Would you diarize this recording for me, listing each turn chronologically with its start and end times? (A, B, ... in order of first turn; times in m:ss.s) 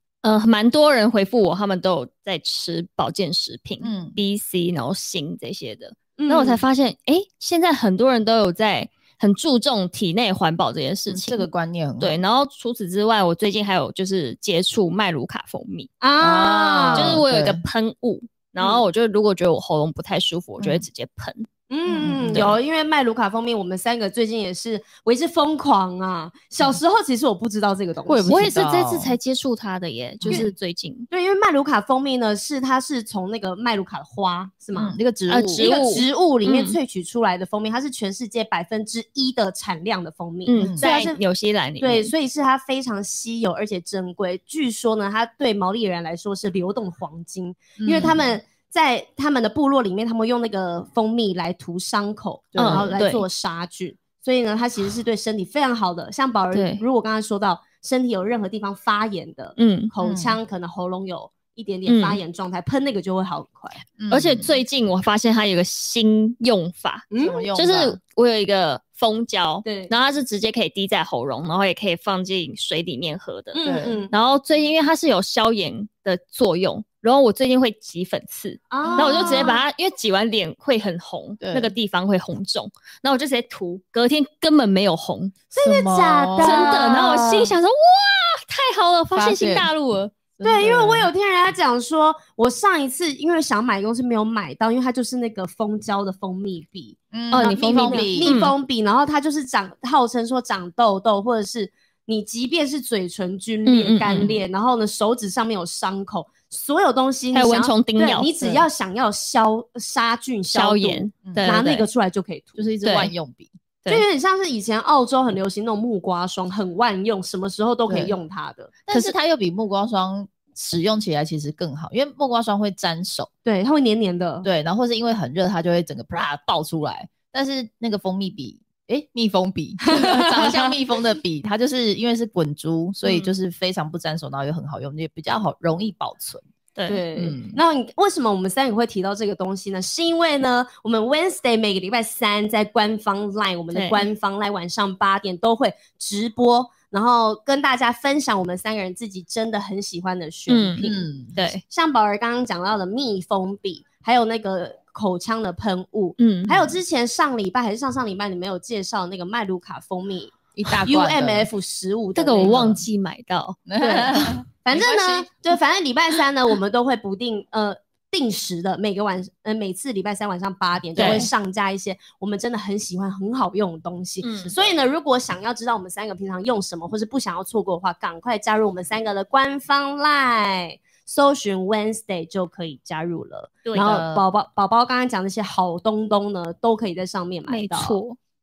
0:00.2-0:11.5 A
0:03.8-0:04.2 B
0:06.2-0:06.6 C
0:11.1-0:12.2 B
0:12.0-0:15.9 A
0:16.0-0:17.2 C
0:16.2-0:17.6 B
0:16.9-0:21.5 A
0:20.6-0:20.8 B
0:21.7-0:28.4 C
0:21.8-0:22.6 B
0:22.3-0:22.5 A
0:28.1-0:29.2 B
0:28.3-0:31.1 A
0:30.2-0:30.5 B
0:31.1-0:34.9 C
0:34.8-0:35.7 B
0:35.3-0:36.8 A
0:35.5-0:41.2 C
0:40.4-0:42.1 A
0:41.8-1:03.8 C
0:47.8-0:48.3 B
0:52.5-0:52.9 B
0:52.6-0:53.2 A
0:56.5-0:56.8 A
0:59.6-0:59.9 A
1:00.0-1:00.4 B
1:01.9-1:02.2 A
1:04.0-1:04.5 B
1:04.1-1:25.3 A
1:07.1-1:07.5 C
1:07.2-1:08.0 B
1:09.6-1:09.9 C
1:13.5-1:14.1 C
1:13.6-1:14.0 B
1:18.7-1:19.6 C
1:18.8-1:19.5 B
1:21.4-1:21.7 B
1:25.5-1:27.1 C
1:25.6-1:27.5 B
1:26.4-1:30.1 A
1:29.1-1:29.7 B
1:30.3-1:31.1 B
1:30.4-1:52.6 C
1:37.1-1:38.4 B
1:37.3-1:38.5 A
1:43.7-1:44.4 A
1:47.3-1:48.3 A
1:48.4-1:48.6 B
1:50.5-1:51.8 A
1:51.2-1:51.5 B
1:52.6-1:53.5 B
1:52.8-1:53.1 A
1:53.9-1:59.1 C
1:57.9-1:58.1 B
1:58.8-2:03.3 B
2:03.5-2:04.5 C
2:04.4-2:16.4 B
2:09.8-2:10.7 C
2:16.9-2:31.0 C
2:17.2-2:17.6 B
2:23.7-2:24.0 A
2:30.5-2:31.6 A
2:30.8-2:31.3 B
2:31.7-2:42.7 C
2:36.2-2:36.6 A
2:40.5-2:41.5 B
2:42.2-2:44.0 A
2:42.4-2:42.8 B
2:43.7-2:45.2 B
2:43.8-3:08.0 C
2:51.0-2:51.3 A
2:51.0-2:51.3 B
2:54.2-2:54.5 A
3:03.6-3:03.9 A
3:03.7-3:04.2 B
3:07.5-3:08.2 A